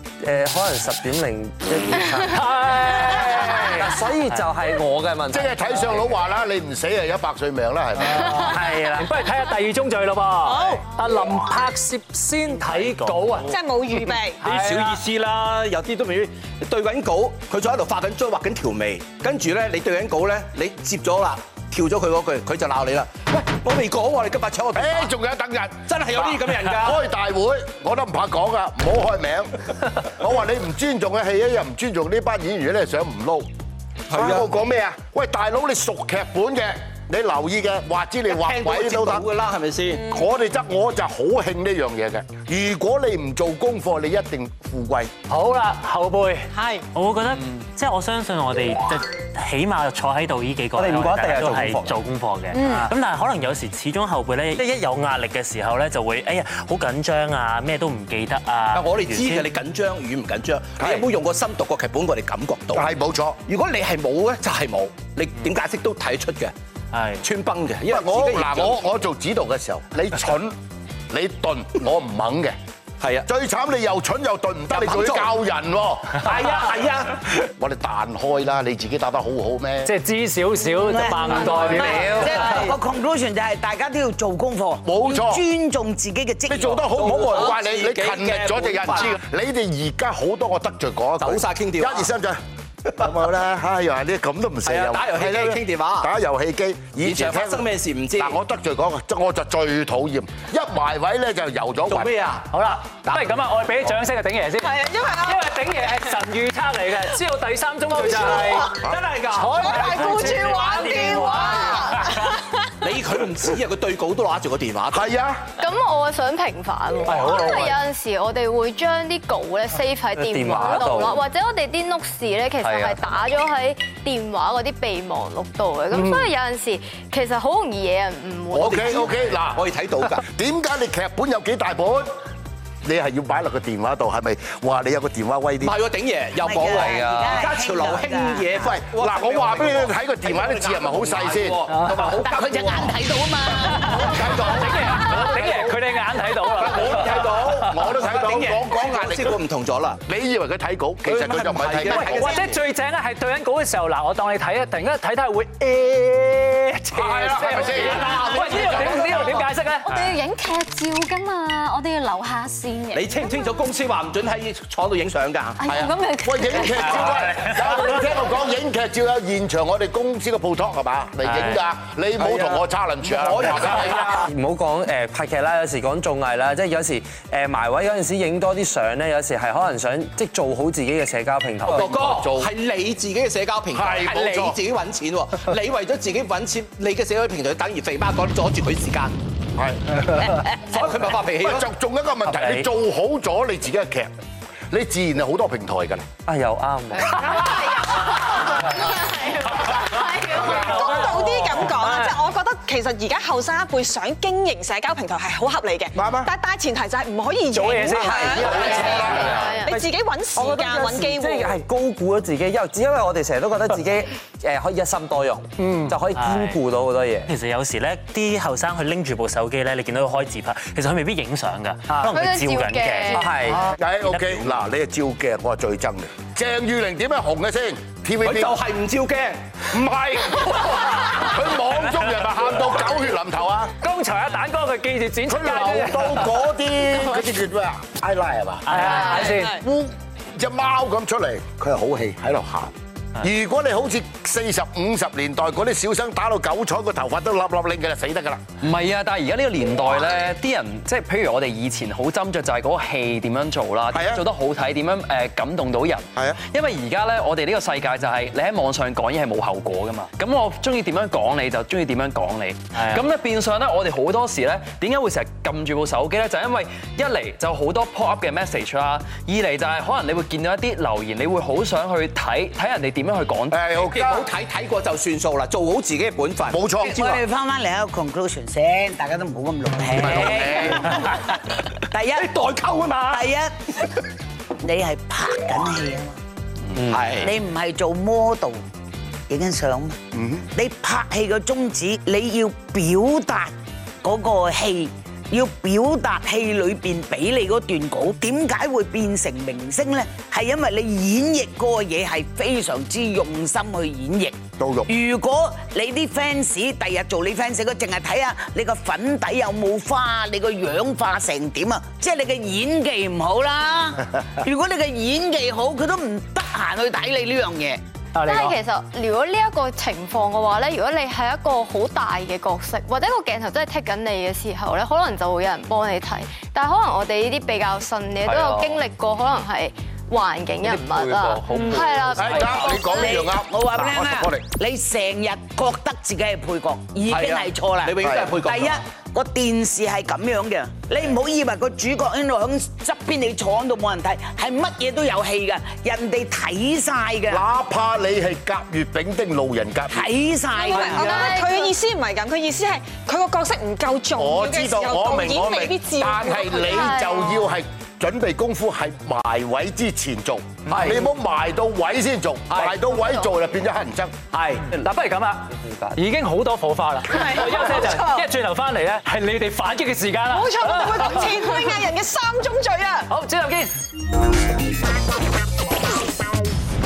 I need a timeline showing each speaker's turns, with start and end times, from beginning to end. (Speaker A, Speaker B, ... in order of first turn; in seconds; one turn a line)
Speaker A: 0.2-5.8
Speaker B: 2.3-3.9
Speaker C: 5.3-8.5
Speaker B: 8.0-13.5
Speaker A: 8.2-9.1
Speaker D: 10.5-10.8
Speaker E: 12.6-13.5
Speaker D: 13.5-14.4
Speaker B: 14.4-15.0
Speaker F: 14.4-25.1
Speaker C: 24.7-33.5
Speaker F: 25.9-27.0
Speaker F: 34.1-34.5
Speaker C: 34.1-39.2
Speaker F: 38.3-40.1
Speaker C: 40.0-45.1
Speaker B: 45.3-46.5
Speaker E: 46.9-59.5
Speaker A: 50.8-52.0
Speaker B: 52.6-52.9
Speaker F: 58.7-62.9
Speaker C: 60.8-61.1
Speaker C: 62.7-63.4
Speaker F: 63.5-66.5
Speaker E: 66.9-67.2
Speaker F: 67.2-68.8
Speaker C: 67.9-70.5
Speaker C: 71.1-72.5
Speaker C: 73.2-76.7
Speaker F: 74.7-75.3
Speaker F: 76.2-77.2
Speaker C: 77.3-79.9
Speaker B: 79.8-82.7
Speaker G: 80.7-86.8
Speaker C: 84.8-85.4
Speaker C: 86.5-92.4
Speaker F: 86.8-89.2
Speaker F: 91.2-92.1
Speaker C: 92.9-97.7
Speaker F: 94.6-96.1
Speaker F: 97.0-98.4
Speaker C: 98.2-102.1
Speaker F: 101.9-102.5
Speaker B: 102.5-108.8
Speaker D: 104.6-105.5
Speaker D: 108.1-108.8
Speaker F: 108.1-110.4
Speaker B: 109.3-112.3
Speaker D: 109.6-112.4
Speaker F: 112.8-115.1
Speaker C: 114.9-115.5
Speaker H: 115.6-129.2
Speaker B: 117.1-117.7
Speaker A: 120.2-121.2
Speaker I: 122.6-123.1
Speaker C: 128.5-132.1
Speaker F: 128.6-130.2
Speaker C: 132.8-135.8
Speaker F: 135.6-143.0
Speaker G: 136.4-138.7
Speaker I: 136.8-137.3
Speaker C: 138.6-141.7
Speaker B: 141.7-142.1
Speaker G: 142.1-144.3
Speaker B: 143.6-147.1
Speaker C: 143.7-145.8
Speaker C: 146.4-149.4
Speaker F: 146.5-150.0
Speaker C: 150.0-152.3
Speaker F: 151.0-152.6
Speaker B: 151.9-159.9
Speaker C: 156.9-158.9
Speaker F: 157.5-159.4
Speaker J: 159.8-163.5
Speaker F: 162.9-165.6
Speaker J: 165.6-167.2
Speaker C: 165.6-174.2
Speaker E: 171.2-171.6
Speaker F: 172.2-174.3
Speaker A: 174.2-181.9
Speaker C: 181.7-182.5
Speaker F: 181.7-189.1
Speaker C: 183.7-184.6
Speaker C: 189.6-194.1
Speaker F: 190.7-191.7
Speaker C: 194.7-196.1
Speaker A: 196.3-197.5
Speaker H: 197.3-200.5
Speaker D: 200.2-211.6
Speaker C: 200.4-200.8
Speaker B: 200.6-202.1
Speaker C: 205.9-206.3
Speaker B: 207.5-208.7
Speaker C: 208.2-209.6
Speaker H: 208.4-209.8
Speaker A: 208.6-208.9
Speaker A: 209.6-217.3
Speaker B: 215.6-215.9
Speaker E: 216.1-216.6
Speaker E: 217.3-223.6
Speaker H: 222.0-223.3
Speaker A: 223.1-223.7
Speaker C: 223.6-228.6
Speaker F: 228.2-229.4
Speaker C: 229.7-233.7
Speaker B: 233.8-236.3
Speaker C: 235.3-248.4
Speaker B: 238.7-239.6
Speaker I: 248.6-273.6
Speaker C: 253.9-254.2
Speaker E: 262.8-263.0
Speaker C: 273.5-274.3
Speaker F: 273.7-277.2
Speaker C: 276.5-277.0
Speaker G: 276.8-281.2
Speaker C: 279.9-281.1
Speaker F: 280.1-280.9
Speaker G: 281.9-282.3
Speaker F: 282.1-283.3
Speaker G: 283.1-283.5
Speaker G: 284.6-286.2
Speaker F: 286.8-287.3
Speaker G: 287.2-288.6
Speaker G: 289.3-290.0
Speaker C: 290.1-290.4
Speaker G: 290.5-317.8
Speaker C: 304.6-304.9
Speaker B: 318.1-318.6
Speaker H: 318.2-333.3
Speaker I: 328.2-328.8
Speaker I: 330.6-332.8
Speaker C: 332.1-334.4
Speaker G: 332.8-347.4
Speaker F: 337.1-338.8
Speaker C: 347.3-350.1
Speaker G: 349.9-351.2
Speaker D: 350.6-357.0
Speaker H: 350.6-351.7
Speaker C: 354.1-364.2
Speaker H: 356.6-357.5
Speaker F: 360.6-361.1
Speaker F: 362.5-362.8
Speaker F: 364.3-364.6
Speaker B: 364.7-371.4
Speaker D: 367.1-368.2
Speaker D: 370.3-373.1
Speaker B: 373.1-373.7